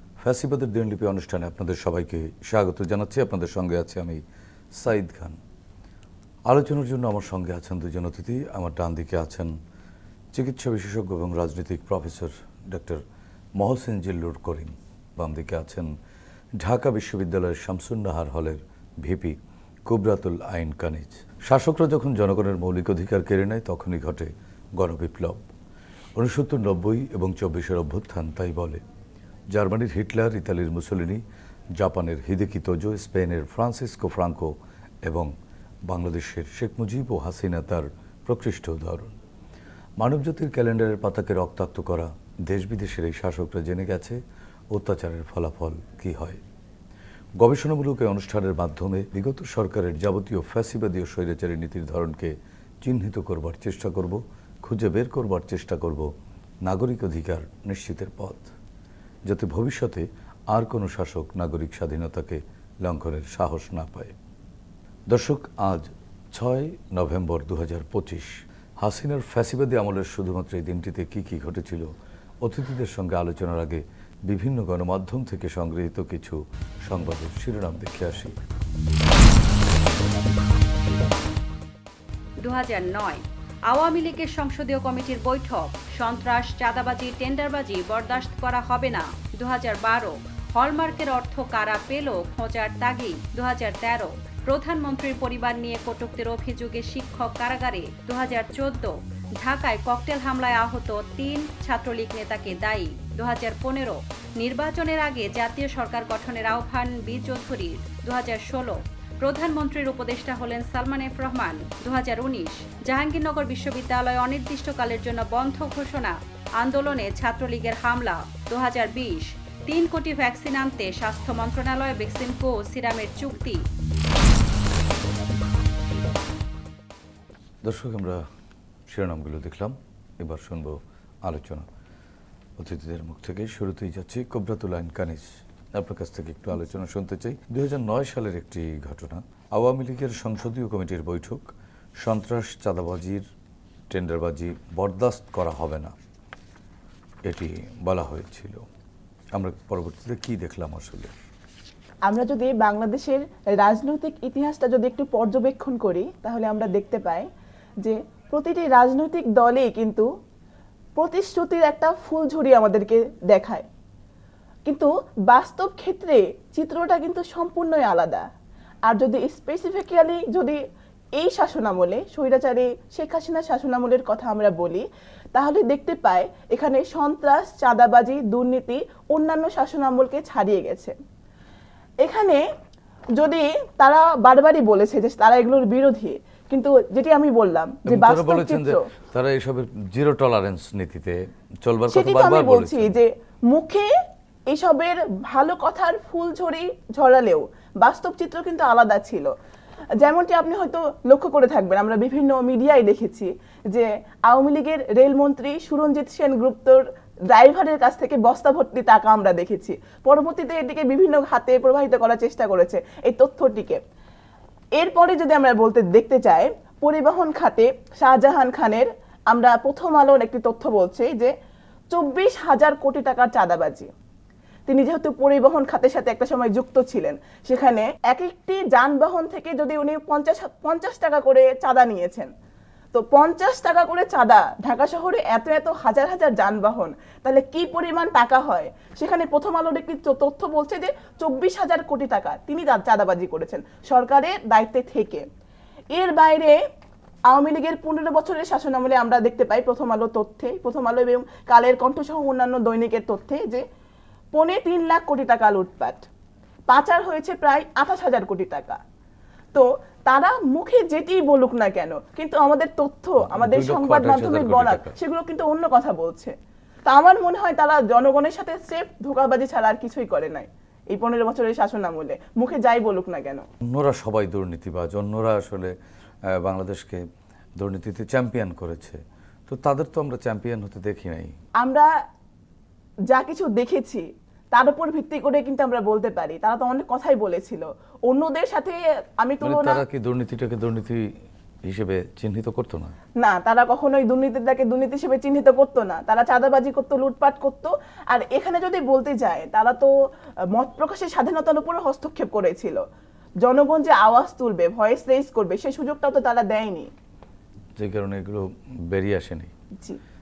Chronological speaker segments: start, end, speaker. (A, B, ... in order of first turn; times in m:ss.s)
0:00.2-0:05.4 A
0:06.5-0:09.5 A
0:10.3-0:13.0 A
0:13.6-0:15.9 A
0:16.6-0:19.4 A
0:19.9-0:25.4 A
0:26.1-0:28.8 A
0:29.5-0:31.2 A
0:31.8-0:34.5 A
0:35.0-0:35.3 A
0:35.9-0:39.1 A
0:40.0-0:44.2 A
0:44.7-0:46.4 A
0:47.4-0:56.1 A
0:56.6-0:58.5 A
0:59.3-1:04.1 A
1:05.1-1:11.9 A
1:12.4-1:18.4 A
1:22.4-2:03.6 B
2:07.6-2:08.2 A
2:08.9-2:11.7 A
2:12.6-2:23.2 A
2:23.9-2:25.9 A
2:27.2-2:28.6 A
2:29.3-2:31.1 A
2:32.1-2:37.3 C
2:37.8-2:40.1 C
2:41.0-2:43.6 C
2:44.7-2:48.3 C
2:48.9-2:50.6 C
2:51.2-3:01.0 C
3:02.0-3:02.4 C
3:03.2-3:08.9 C
3:07.8-3:13.0 A
3:11.9-3:13.9 C
3:14.5-3:19.3 C
3:20.0-3:33.8 C
3:34.8-3:41.3 C
3:41.9-3:43.9 C
3:44.7-3:52.3 C
3:52.9-4:05.2 C
4:05.9-4:06.6 C
4:07.3-4:13.6 C
4:14.3-4:16.0 C
4:16.7-4:18.8 C
4:19.5-4:26.3 C
4:23.2-4:25.0 A
4:26.8-4:33.4 C
4:33.6-4:35.7 A
4:36.3-4:37.0 A
4:37.6-4:41.3 A
4:41.6-4:41.9 C
4:43.1-4:49.8 C
4:49.4-4:51.1 A
4:51.6-4:52.9 A
4:53.2-4:59.9 C
5:00.5-5:02.8 C
5:03.4-5:06.9 C
5:07.8-5:09.5 A